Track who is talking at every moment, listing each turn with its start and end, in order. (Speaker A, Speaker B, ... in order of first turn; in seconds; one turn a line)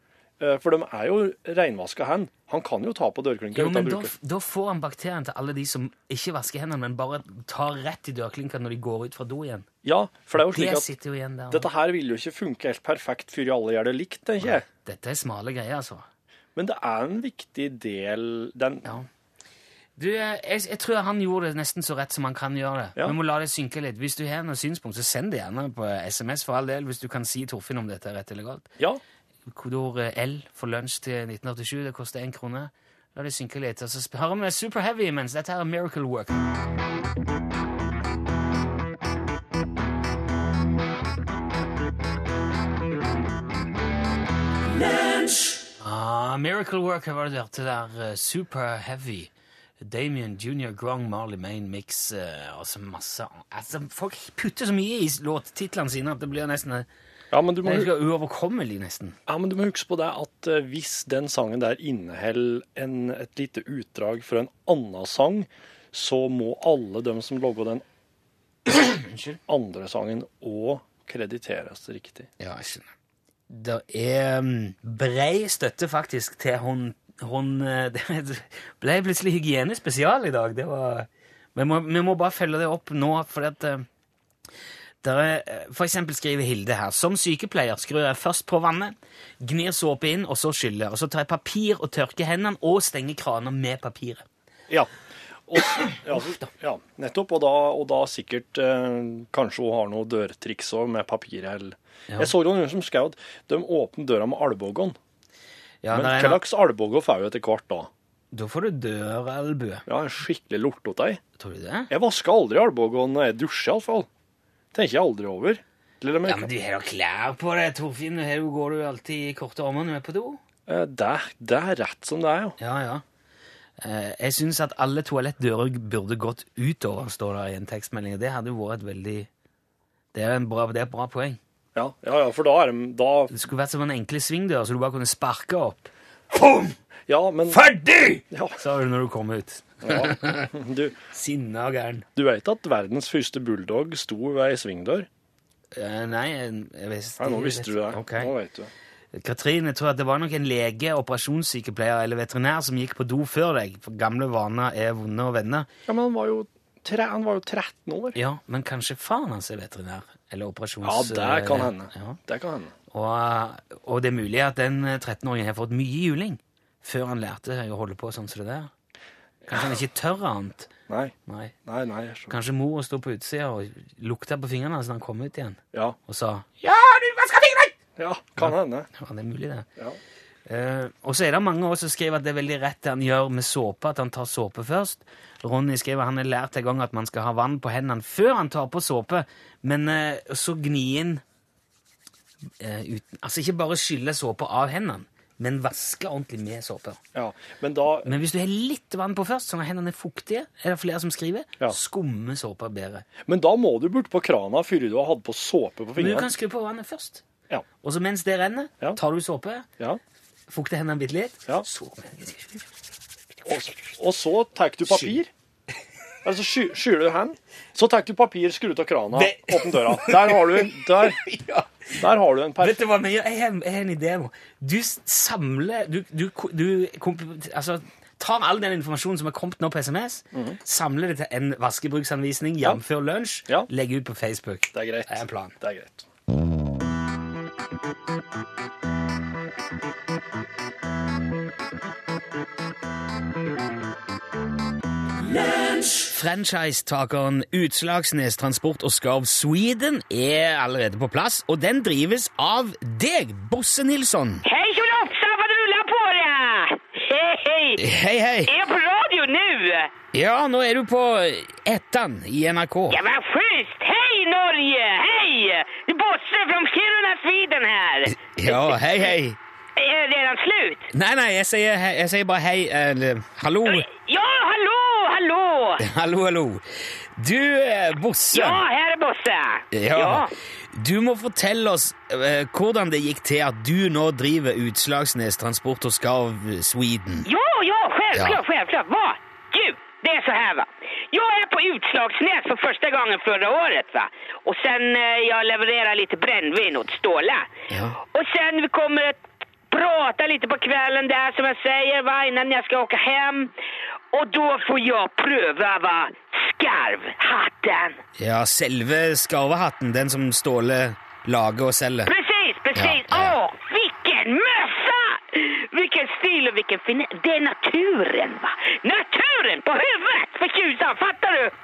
Speaker A: 0.4-4.1
Speaker B: 3.5-9.7
Speaker A: 9.8-10.9
Speaker B: 10.3-11.7
Speaker A: 11.5-14.6
Speaker B: 14.4-16.1
Speaker A: 16.5-19.0
Speaker B: 20.0-28.7
Speaker B: 29.5-36.4
Speaker B: 45.8-56.9
Speaker A: 57.3-57.9
Speaker B: 57.6-59.2
Speaker A: 59.3-67.8
Speaker B: 68.7-69.4
Speaker A: 69.5-72.3
Speaker B: 72.4-72.9
Speaker B: 73.5-83.8
Speaker B: 85.0-94.2
Speaker A: 95.5-105.0
Speaker B: 105.8-106.4
Speaker A: 105.9-107.9
Speaker B: 108.3-109.8
Speaker A: 109.9-111.2
Speaker B: 111.4-111.9
Speaker A: 111.9-114.1
Speaker A: 114.7-116.5
Speaker B: 116.2-120.4
Speaker A: 120.7-122.5
Speaker B: 122.6-123.0
Speaker B: 123.8-129.3
Speaker B: 130.1-131.4
Speaker A: 131.7-133.3
Speaker B: 133.3-136.8
Speaker A: 137.1-137.6
Speaker B: 137.5-140.5
Speaker A: 138.3-138.6
Speaker A: 139.8-140.9
Speaker B: 141.1-142.1
Speaker A: 142.2-145.1
Speaker B: 145.7-148.3
Speaker A: 147.2-148.7
Speaker B: 149.1-155.7
Speaker A: 155.9-158.2
Speaker B: 158.1-162.2
Speaker A: 160.8-162.7
Speaker B: 162.9-168.7
Speaker B: 169.5-170.7
Speaker A: 170.9-171.1
Speaker B: 171.3-171.5
Speaker A: 171.7-172.3
Speaker B: 172.3-177.8
Speaker A: 178.0-178.9
Speaker B: 178.4-179.7
Speaker B: 180.5-191.2
Speaker B: 192.6-197.0
Speaker A: 197.1-198.1
Speaker B: 198.0-203.0
Speaker A: 203.2-206.3
Speaker B: 205.9-207.2
Speaker B: 207.8-209.7
Speaker B: 210.5-212.6
Speaker A: 213.4-215.3
Speaker A: 216.2-221.2
Speaker B: 219.1-222.1
Speaker A: 222.0-222.8
Speaker B: 222.6-235.5
Speaker A: 230.3-230.6
Speaker A: 234.7-236.1
Speaker B: 246.1-254.4
Speaker C: 254.4-257.9
Speaker B: 257.8-258.5
Speaker C: 258.5-259.9
Speaker B: 260.1-263.0
Speaker C: 262.9-269.1
Speaker B: 268.1-269.4
Speaker C: 269.8-270.9
Speaker B: 270.9-273.9
Speaker C: 273.6-275.8
Speaker B: 275.8-276.6
Speaker B: 277.2-278.6
Speaker C: 278.3-280.3
Speaker B: 279.7-287.3
Speaker C: 287.2-297.5
Speaker B: 288.1-288.4
Speaker B: 297.7-298.0
Speaker C: 298.0-303.5
Speaker C: 304.1-308.0
Speaker B: 308.2-312.1
Speaker C: 312.1-321.5
Speaker B: 312.7-313.4